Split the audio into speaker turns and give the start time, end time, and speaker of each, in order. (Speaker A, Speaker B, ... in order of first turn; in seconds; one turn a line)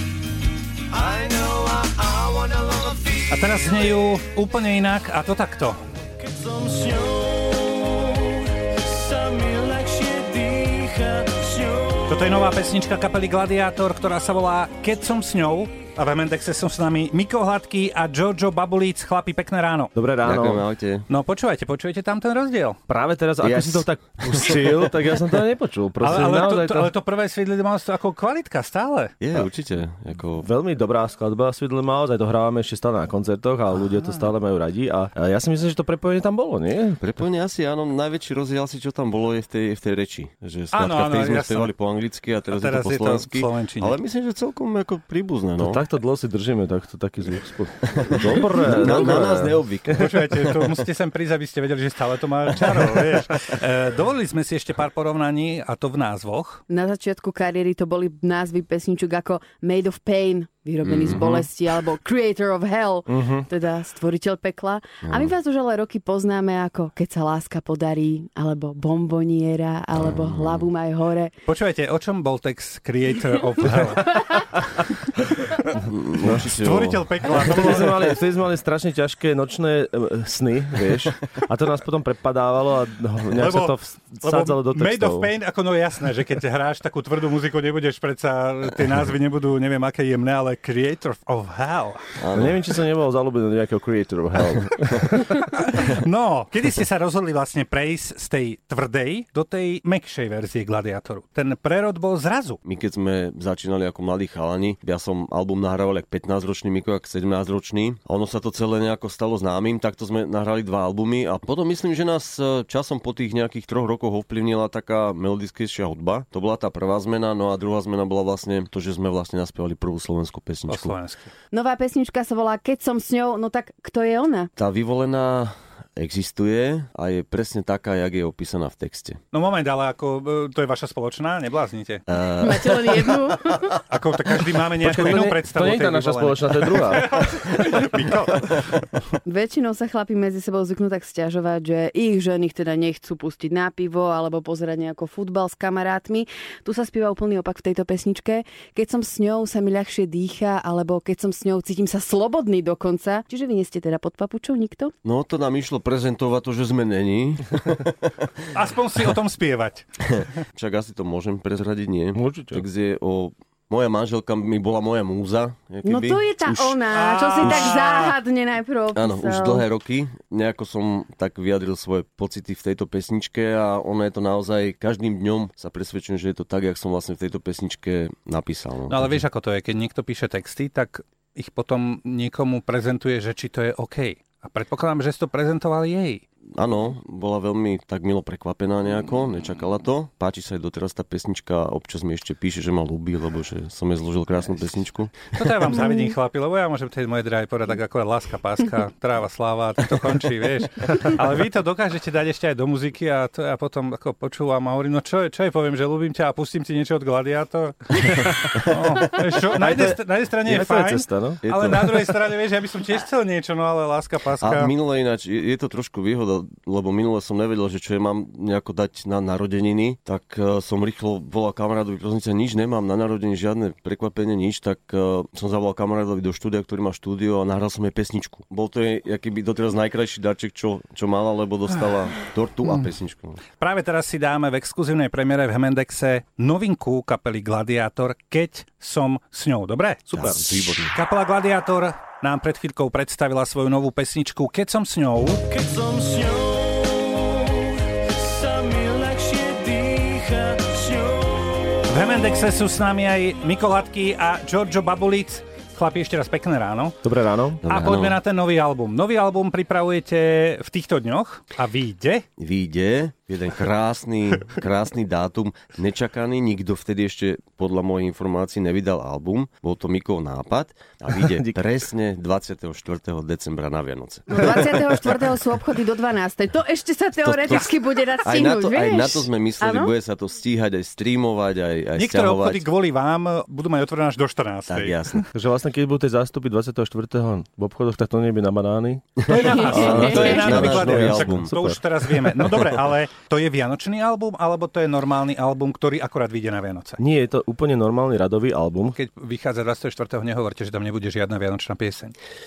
Speaker A: 0.9-3.7
Speaker B: 3.3-5.8
Speaker C: 6.4-11.9
Speaker A: 6.6-6.8
Speaker B: 12.0-19.9
Speaker D: 19.9-20.6
Speaker A: 20.2-21.1
Speaker B: 21.1-22.8
Speaker D: 22.9-26.9
Speaker A: 23.4-24.9
Speaker B: 26.0-29.1
Speaker A: 29.2-30.5
Speaker D: 30.4-37.1
Speaker A: 37.0-45.8
Speaker B: 40.7-41.7
Speaker B: 42.5-44.0
Speaker D: 45.6-50.1
Speaker A: 48.6-50.7
Speaker B: 49.9-56.6
Speaker A: 52.5-53.0
Speaker E: 56.7-71.3
Speaker A: 60.8-61.5
Speaker D: 63.1-63.5
Speaker A: 65.0-65.3
Speaker A: 69.9-70.7
Speaker B: 71.4-75.7
Speaker A: 75.8-77.0
Speaker D: 76.2-76.5
Speaker B: 76.5-78.1
Speaker D: 77.3-85.3
Speaker B: 83.3-92.1
Speaker A: 92.2-92.6
Speaker D: 92.3-95.4
Speaker A: 94.4-95.1
Speaker B: 95.5-102.6
Speaker A: 102.6-121.0
Speaker B: 120.7-121.3
Speaker E: 121.5-124.5
Speaker A: 124.6-129.2
Speaker B: 129.3-132.0
Speaker A: 132.1-133.2
Speaker E: 132.4-133.8
Speaker B: 133.9-138.8
Speaker D: 134.8-137.1
Speaker E: 139.2-154.9
Speaker A: 155.0-158.3
Speaker B: 158.5-160.3
Speaker A: 160.1-166.8
Speaker D: 162.1-162.6
Speaker E: 165.8-169.6
Speaker B: 166.9-168.1
Speaker A: 167.4-167.8
Speaker A: 168.9-179.2
Speaker B: 178.9-186.2
Speaker A: 186.5-195.8
Speaker B: 195.4-214.7
Speaker E: 195.8-196.1
Speaker D: 209.5-211.7
Speaker A: 211.4-212.1
Speaker A: 214.4-233.4
Speaker B: 233.6-240.3
Speaker D: 240.1-240.6
Speaker A: 240.1-240.9
Speaker B: 240.8-245.5
Speaker C: 245.5-251.7
Speaker B: 251.8-257.0
Speaker D: 257.0-257.6
Speaker A: 257.6-258.2
Speaker B: 257.7-262.2
Speaker A: 262.4-275.0
Speaker D: 271.1-271.5
Speaker E: 274.3-279.9
Speaker A: 277.1-282.6
Speaker B: 281.9-285.0
Speaker A: 284.7-285.2
Speaker D: 285.3-291.8
Speaker A: 289.2-291.5
Speaker B: 289.3-297.0
Speaker E: 289.3-290.6
Speaker D: 297.0-299.0
Speaker B: 298.9-302.1